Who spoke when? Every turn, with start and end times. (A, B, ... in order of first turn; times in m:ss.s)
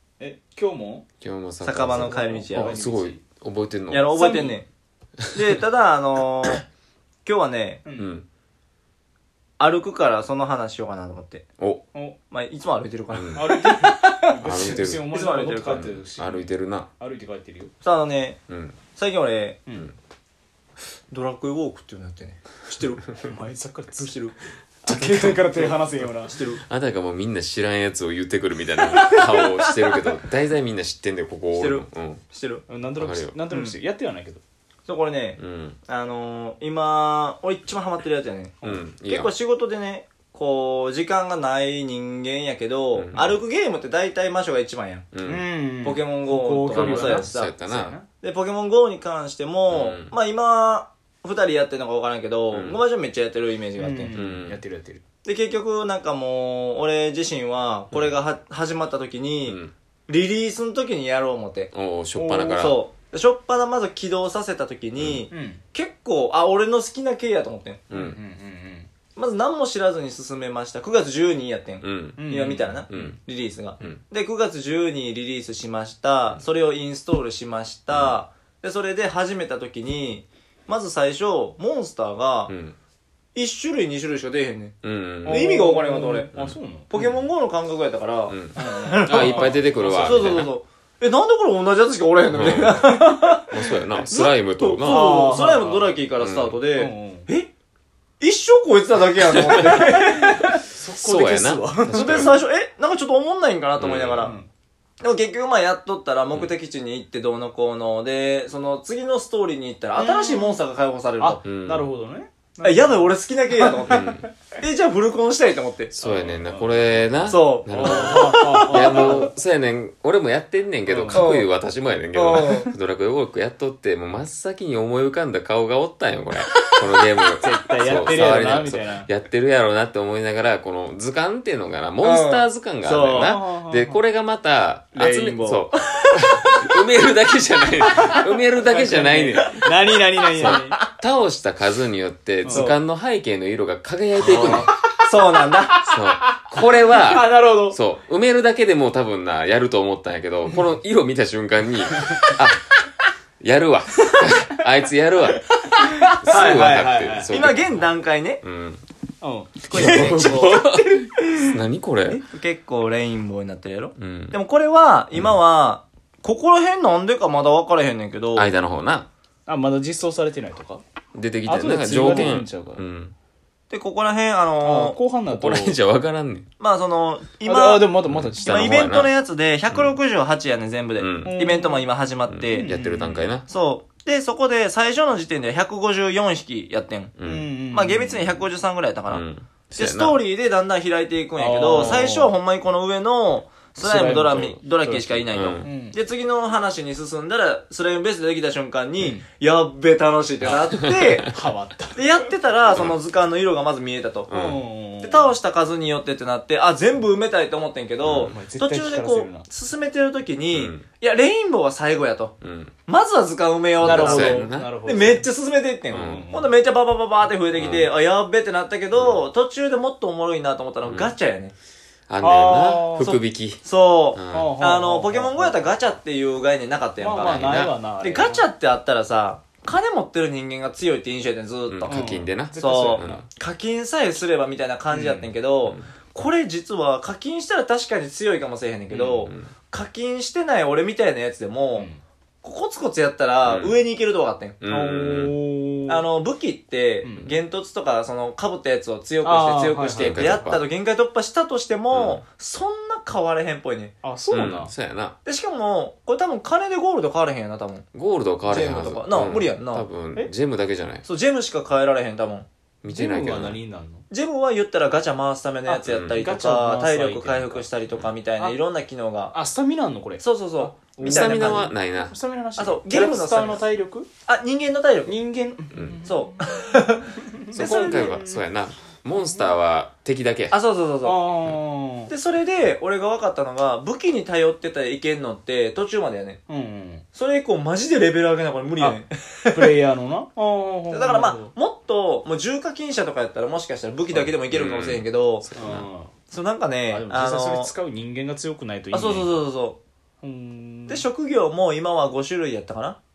0:00.2-0:01.0 A
0:01.2-0:04.1 B
0:01.6-0:02.8 C
0:01.8-0:03.2 A
0:03.9-0:04.7 C
0:04.1-0:04.6 A
0:05.3-0:06.6 C
0:07.2-0:07.8 C
0:07.8-0:08.2 A
0:08.0-0:08.2 B
0:09.6-0:11.4 C
0:12.3-0:15.9 C
0:13.1-0:13.4 B
0:13.4-0:17.7 A
0:14.4-0:15.1 B
0:15.7-0:16.9 B
0:17.8-0:18.4 C
0:18.5-0:18.8 B
0:18.9-0:19.6 C
0:19.7-0:19.9 A
0:21.1-0:23.1 C
0:23.2-0:24.2 A
0:24.0-0:24.4 C
0:24.8-0:26.4 A
0:24.9-0:32.2 B
0:26.3-0:26.6 C
0:31.5-0:32.6 C
0:32.7-0:34.4 A
0:33.0-0:33.4 B
0:33.5-0:33.8 C
0:34.9-0:45.1 C
0:35.4-0:35.8 B
0:38.6-0:39.3 B
0:42.9-0:43.4 B
0:45.1-0:45.4 B
0:45.2-0:48.1 A
0:45.8-0:47.5 C
0:46.7-0:48.0 B
0:48.2-0:54.2 C
0:49.7-0:50.1 B
0:52.5-0:52.8 B
0:53.8-0:55.0 A
0:54.1-0:54.6 B
0:55.2-1:01.7 C
0:59.5-0:59.7 B
1:01.7-1:02.8 B
1:02.2-1:02.6 A
1:02.5-1:07.8 C
1:05.0-1:05.3 B
1:05.3-1:05.6 A
1:07.9-1:08.2 B
1:07.9-1:08.9 A
1:09.2-1:22.5 C
1:11.8-1:12.2 B
1:12.2-1:13.1 A
1:12.9-1:13.2 B
1:17.9-1:18.2 B
1:22.5-1:22.8 B
1:23.4-1:26.3 C
1:24.8-1:25.5 B
1:25.2-1:26.9 A
1:26.3-1:27.2 B
1:26.9-1:33.5 C
1:28.3-1:30.5 B
1:28.6-1:30.4 A
1:32.3-1:35.3 B
1:34.0-1:37.5 C
1:34.8-1:36.0 A
1:36.2-1:36.6 B
1:36.7-1:37.3 A
1:38.2-1:40.6 C
1:39.4-1:42.3 A
1:41.0-1:42.4 B
1:41.9-1:44.4 C
1:43.8-1:44.3 B
1:44.2-1:44.5 A
1:45.0-1:51.4 C
1:49.9-1:50.6 A
1:51.2-1:54.1 A
1:51.4-1:51.9 B
1:52.6-1:55.9 C
1:53.9-1:54.2 B
1:56.0-2:19.8 B
1:56.0-1:59.3 A
1:57.3-1:59.3 C
2:00.9-2:01.3 A
2:01.1-2:01.5 C
2:02.1-2:02.7 C
2:07.4-2:09.1 A
2:12.0-2:13.3 C
2:13.1-2:14.0 A
2:14.9-2:15.7 A
2:18.0-2:20.8 A
2:20.3-2:24.7 B
2:20.4-2:20.8 C
2:22.4-2:22.7 A
2:22.5-2:22.8 C
2:24.2-2:24.7 A
2:25.1-2:25.8 C
2:25.8-2:27.8 A
2:25.9-2:32.7 B
2:33.4-2:38.8 B
2:35.7-2:37.3 A
2:35.8-2:36.1 C
2:37.3-2:38.4 C
2:39.2-2:41.6 A
2:39.7-2:40.6 C
2:39.7-2:42.2 B
2:42.2-2:48.5 C
2:44.0-2:44.4 B
2:48.4-2:49.1 B
2:49.5-2:50.8 A
2:51.1-2:53.1 B
2:51.5-2:52.8 A
2:53.7-2:55.0 C
2:54.6-2:55.8 A
2:55.3-2:56.5 B
2:56.6-3:02.7 C
2:57.4-2:58.9 A
2:58.1-2:59.1 B
2:59.7-3:00.0 B
3:01.0-3:01.4 B
3:01.2-3:01.9 A
3:02.3-3:03.5 B
3:02.5-3:03.3 A
3:03.5-3:07.1 C
3:07.2-3:07.5 B
3:07.2-3:08.3 A
3:07.7-3:09.2 C
3:09.1-3:10.2 B
3:09.8-3:21.3 C
3:11.4-3:12.4 A
3:13.8-3:16.0 A
3:15.3-3:15.7 B
3:20.5-3:21.2 B
3:21.3-3:22.1 A
3:22.0-3:24.3 C
3:24.3-3:24.6 B
3:24.3-3:25.3 A
3:25.0-3:32.3 C
3:28.0-3:28.4 B
3:28.2-3:29.5 A
3:30.5-3:30.8 B
3:32.4-3:32.7 B
3:32.9-3:41.5 C
3:33.8-3:34.7 B
3:33.8-3:35.2 A
3:35.9-3:36.3 B
3:35.9-3:36.6 A
3:37.6-3:37.9 B
3:39.0-3:39.2 B
3:40.8-3:41.1 B
3:42.1-3:43.6 B
3:42.2-3:43.1 A
3:43.0-3:52.0 C
3:44.1-3:44.6 B
3:44.3-3:45.7 A
3:47.0-3:48.5 A
3:47.2-3:47.7 B
3:51.7-3:53.2 B
3:51.9-3:53.2 A
3:52.6-4:01.9 C
3:54.9-3:55.3 A
3:59.0-3:59.5 B
4:02.4-4:04.6 C
4:03.4-4:03.8 B
4:04.6-4:05.4 B
4:04.7-4:06.0 A
4:05.9-4:13.9 C
4:07.0-4:07.3 A
4:09.2-4:10.5 A
4:10.0-4:10.6 B
4:11.9-4:12.2 B
4:14.0-4:14.7 A
4:14.3-4:15.2 B
4:15.2-4:17.8 C
4:17.9-4:21.1 B
4:18.5-4:19.9 C
4:21.0-4:22.5 C
4:22.8-4:23.6 B
4:22.9-4:24.0 A
4:24.1-4:29.4 C
4:25.7-4:27.7 A
4:25.9-4:26.2 B
4:29.3-4:34.1 A
4:30.2-4:31.7 C
4:31.0-4:32.2 B
4:32.6-4:33.6 C
4:34.3-4:35.1 C
4:35.1-4:36.3 A
4:35.7-4:36.0 B
4:36.0-4:37.1 C
4:37.3-4:38.4 A
4:37.5-4:40.6 B
4:39.2-4:39.5 A
4:40.5-4:41.2 C
4:41.0-4:42.1 A
4:42.1-4:46.4 C
4:46.5-4:47.0 A
4:47.1-4:49.7 C
4:48.8-4:51.5 A
4:50.9-4:55.5 C
4:54.1-4:55.9 B
4:55.6-4:56.1 A
4:56.3-4:57.7 C
4:56.9-4:59.4 A
4:58.9-4:59.8 C
5:00.2-5:01.0 A
5:00.9-5:03.0 C